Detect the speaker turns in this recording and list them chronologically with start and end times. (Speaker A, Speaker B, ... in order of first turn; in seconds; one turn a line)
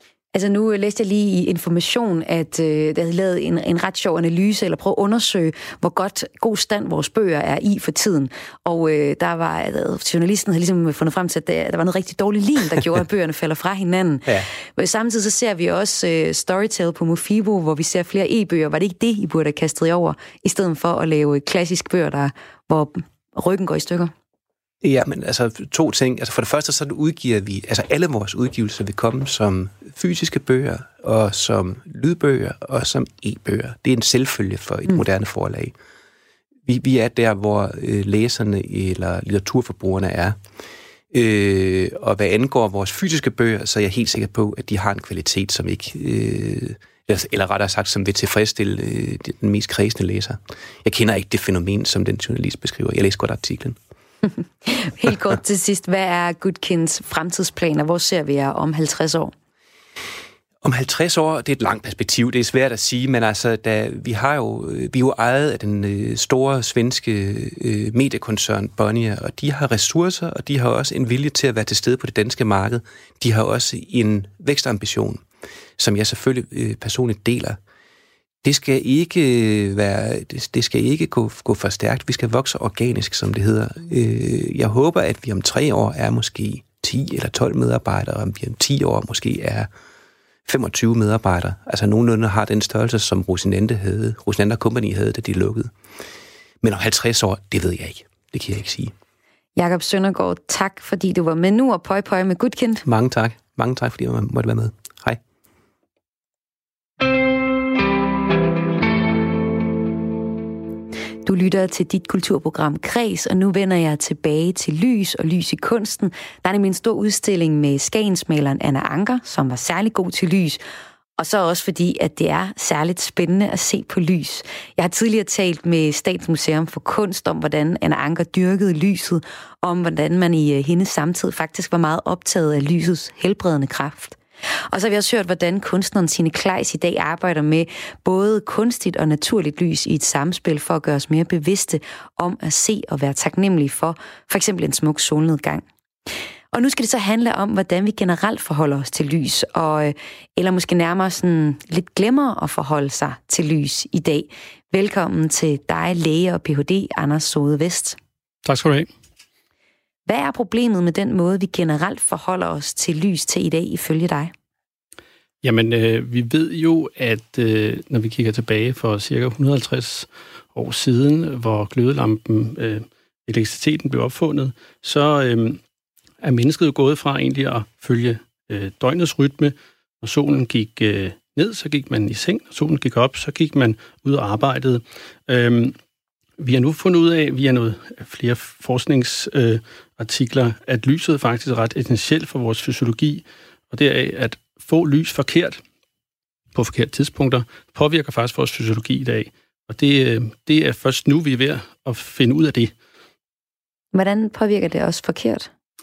Speaker A: 0.3-24.1
Speaker B: 24.8-35.7
Speaker B: 36.6-40.4
Speaker B: 41.1-53.8
Speaker A: 54.6-59.3
Speaker B: 60.6-75.2
Speaker B: 75.8-77.6
Speaker B: 78.4-89.7
Speaker B: 90.5-95.7
Speaker B: 96.6-98.9
Speaker A: 99.6-102.8
Speaker B: 102.8-105.2
Speaker A: 111.2-120.6
Speaker A: 121.2-134.2
Speaker A: 134.7-145.6
Speaker A: 146.5-158.0
Speaker C: 158.4-158.9
Speaker A: 160.1-164.3
Speaker C: 165.4-175.6
Speaker C: 176.2-185.8
Speaker C: 186.4-195.6
Speaker C: 196.5-202.7
Speaker A: 203.9-205.5